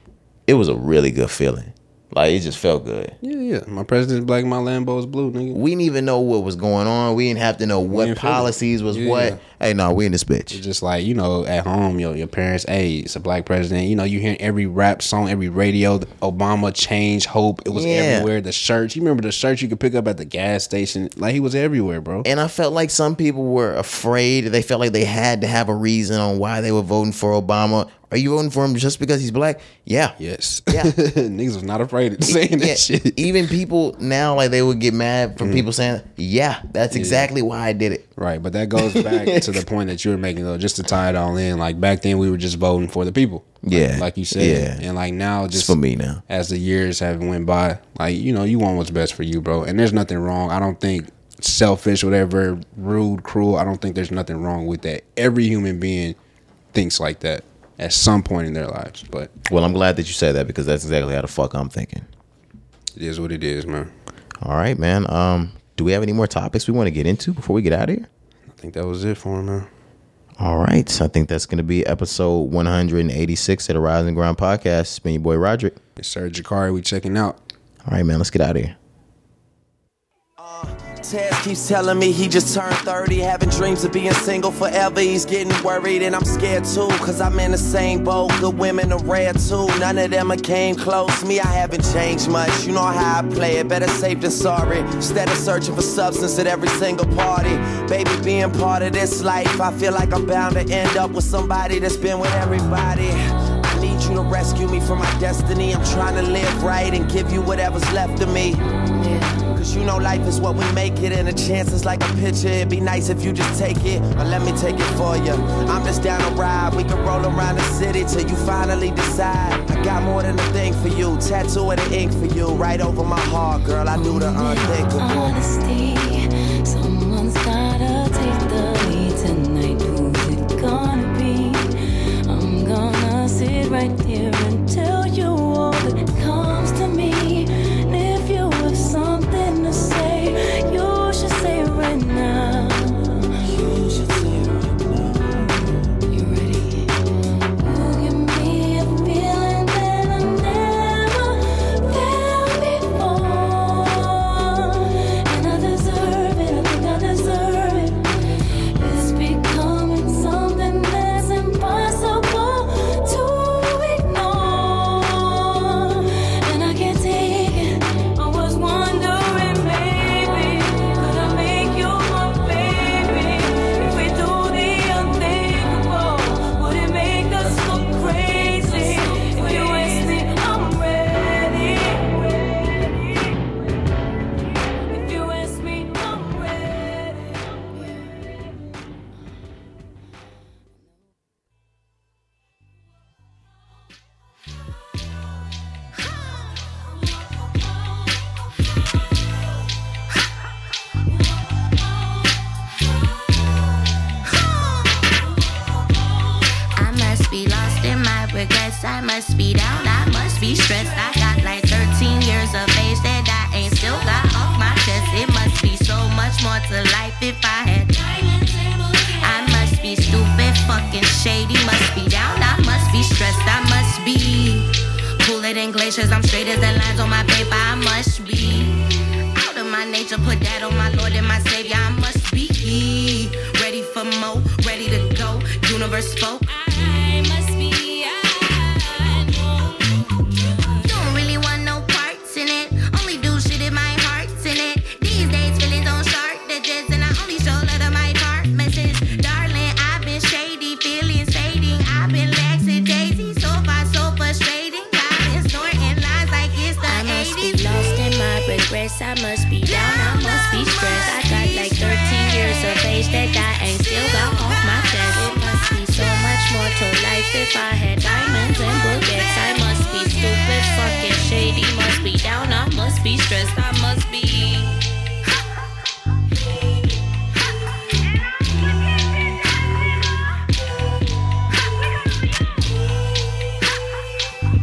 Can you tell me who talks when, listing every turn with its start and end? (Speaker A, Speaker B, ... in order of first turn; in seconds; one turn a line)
Speaker A: 0.5-3.1
Speaker B: 3.2-5.6
Speaker A: 5.5-10.6
Speaker B: 7.9-9.4
Speaker B: 10.5-22.3
Speaker A: 17.7-18.3
Speaker A: 22.2-30.1
Speaker B: 30.2-33.3
Speaker A: 30.7-30.9
Speaker A: 32.3-38.0
Speaker B: 35.4-35.6
Speaker B: 36.9-37.3
Speaker B: 38.2-45.8
Speaker A: 38.8-39.5
Speaker A: 43.6-44.8
Speaker A: 45.5-46.2
Speaker B: 46.3-56.2
Speaker B: 56.7-59.3
Speaker A: 59.5-62.1
Speaker B: 63.0-63.9
Speaker A: 64.4-68.1
Speaker B: 68.5-69.7
Speaker A: 70.4-75.8
Speaker B: 76.0-77.4
Speaker A: 77.8-78.7
Speaker C: 80.4-108.6
Speaker C: 109.4-125.4
Speaker D: 123.9-131.7
Speaker D: 132.2-143.6
Speaker C: 143.5-145.5
Speaker D: 146.1-146.9
Speaker D: 147.6-158.1
Speaker D: 158.7-183.5
Speaker D: 184.7-188.2
Speaker E: 206.8-228.8
Speaker E: 229.3-239.4
Speaker D: 236.9-239.7
Speaker D: 240.4-240.9
Speaker E: 240.8-274.8